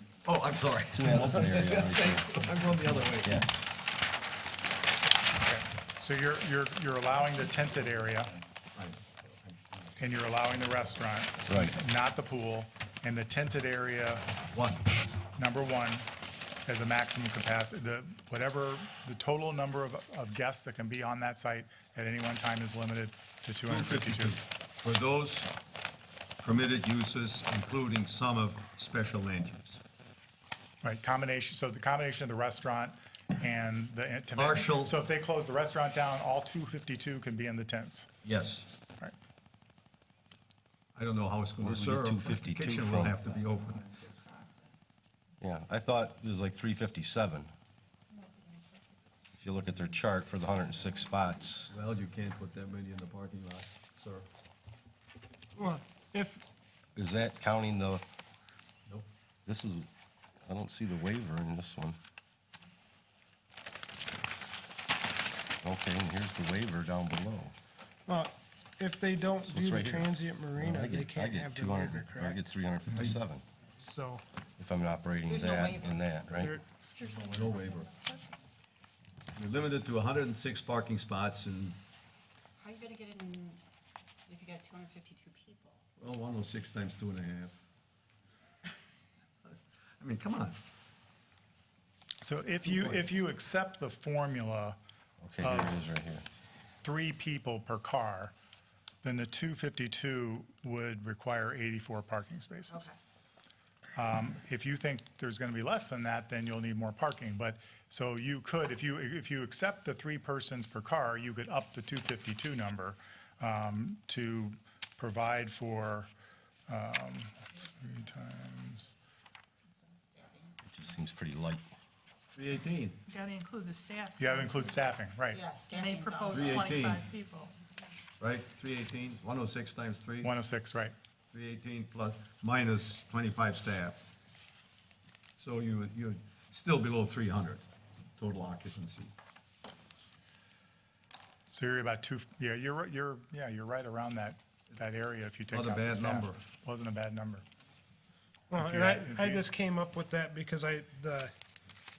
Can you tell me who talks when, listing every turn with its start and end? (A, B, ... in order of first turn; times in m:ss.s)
0:00.2-0:03.4 A
0:00.9-0:02.3 B
0:03.2-0:03.5 B
0:05.4-0:08.3 C
0:08.7-0:10.0 A
0:10.0-0:14.3 C
0:11.5-0:11.7 B
0:14.5-0:14.9 A
0:15.4-0:16.1 C
0:16.6-0:24.4 C
0:23.6-0:25.5 A
0:26.4-0:29.8 A
0:30.8-0:38.1 C
0:34.4-0:35.0 A
0:38.2-0:38.7 A
0:40.9-0:44.0 A
0:41.6-0:43.2 B
0:45.4-0:47.5 B
0:49.4-0:51.7 B
0:51.7-0:54.3 A
0:55.5-0:56.4 D
0:56.9-0:58.0 B
0:59.4-0:59.9 B
1:00.4-1:02.0 B
1:05.6-1:07.5 B
1:08.1-1:12.4 D
1:09.5-1:13.4 B
1:13.8-1:14.2 D
1:14.6-1:16.6 B
1:15.3-1:16.0 E
1:16.4-1:16.6 D
1:17.0-1:18.2 F
1:17.1-1:17.9 A
1:19.3-1:21.8 A
1:22.6-1:23.6 E
1:24.2-1:25.8 E
1:26.0-1:27.6 A
1:29.5-1:30.6 A
1:32.2-1:34.8 C
1:35.2-1:36.2 B
1:35.4-1:35.8 C
1:36.8-1:38.3 C
1:39.0-1:42.9 C
1:43.9-1:56.1 C
1:56.7-1:58.9 C
1:59.8-2:00.6 E
2:00.6-2:01.6 B
2:02.3-2:03.0 A
2:03.1-2:04.8 F
2:04.2-2:05.4 C
2:05.3-2:06.9 E
2:05.7-2:07.5 F
2:06.3-2:07.0 A
2:08.2-2:10.3 A
2:10.2-2:10.9 C
2:11.3-2:14.0 A
2:15.4-2:17.6 A
2:18.2-2:19.1 A
2:21.5-2:27.4 C
2:25.5-2:26.4 A
2:28.5-2:31.3 D
2:28.6-2:29.5 C